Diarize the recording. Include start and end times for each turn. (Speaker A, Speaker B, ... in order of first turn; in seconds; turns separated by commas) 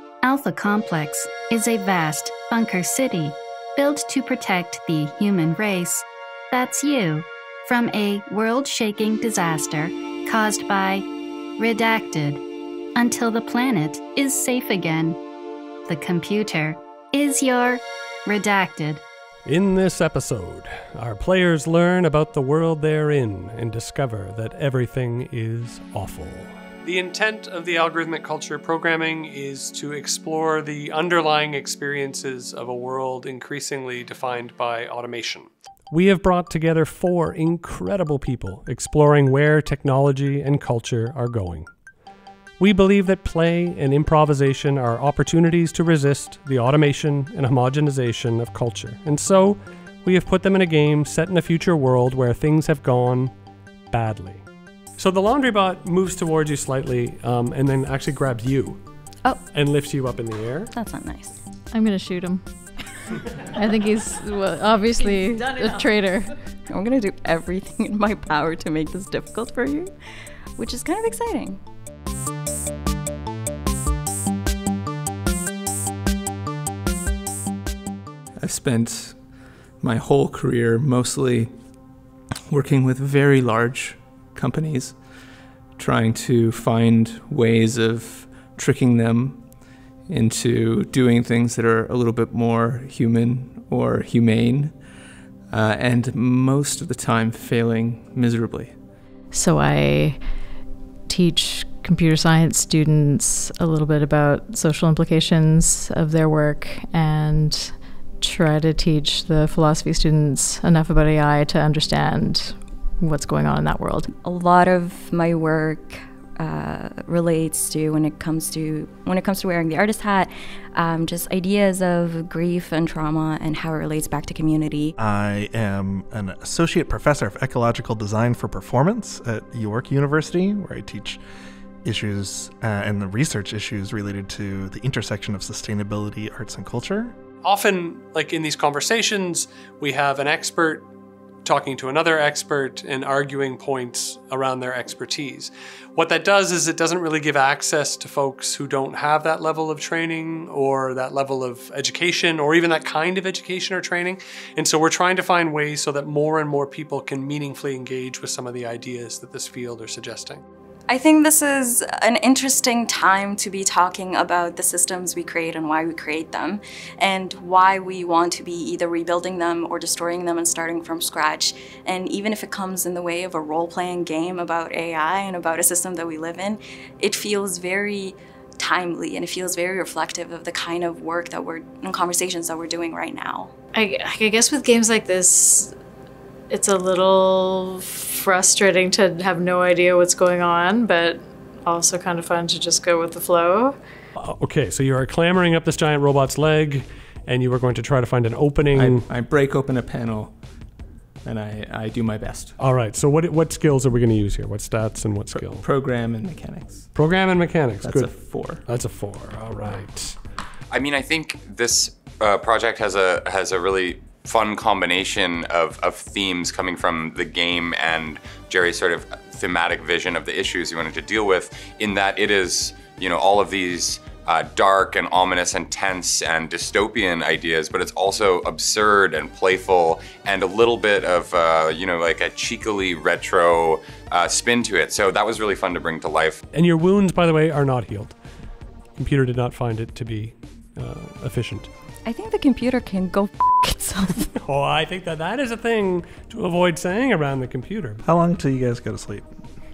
Speaker A: 0.2-11.1, Speaker A: 11.6-12.4, Speaker A: 12.9-15.2, Speaker A: 15.9-19.0, Speaker B: 19.5-41.7, Speaker B: 42.6-53.3, Speaker B: 53.9-54.4, Speaker B: 55.0-58.8, Speaker B: 59.5-60.7, Speaker C: 60.7-61.4, Speaker D: 61.7-62.4, Speaker D: 63.5-66.3, Speaker C: 66.7-69.9, Speaker C: 70.6-71.6, Speaker E: 78.4-81.5, Speaker E: 82.5-85.0, Speaker E: 85.8-89.5, Speaker E: 90.0-94.9, Speaker E: 95.5-98.8, Speaker D: 99.3-100.2, Speaker D: 101.1-114.1, Speaker C: 114.2-124.9, Speaker F: 125.0-131.2, Speaker F: 131.8-137.1, Speaker B: 137.4-140.9, Speaker B: 141.4-160.4, Speaker C: 160.9-183.5, Speaker D: 183.7-185.7, Speaker D: 186.5-193.8, Speaker B: 194.2-199.1, Speaker E: 198.7-200.4, Speaker E: 201.2-202.5, Speaker B: 202.6-205.7, Speaker E: 205.3-206.9, Speaker B: 206.9-210.2, Speaker E: 207.8-208.7, Speaker G: 210.7-236.4, Speaker B: 236.5-238.2, Speaker B: 239.0-241.7, Speaker C: 242.1-244.3, Speaker B: 244.4-248.0, Speaker F: 248.0-249.3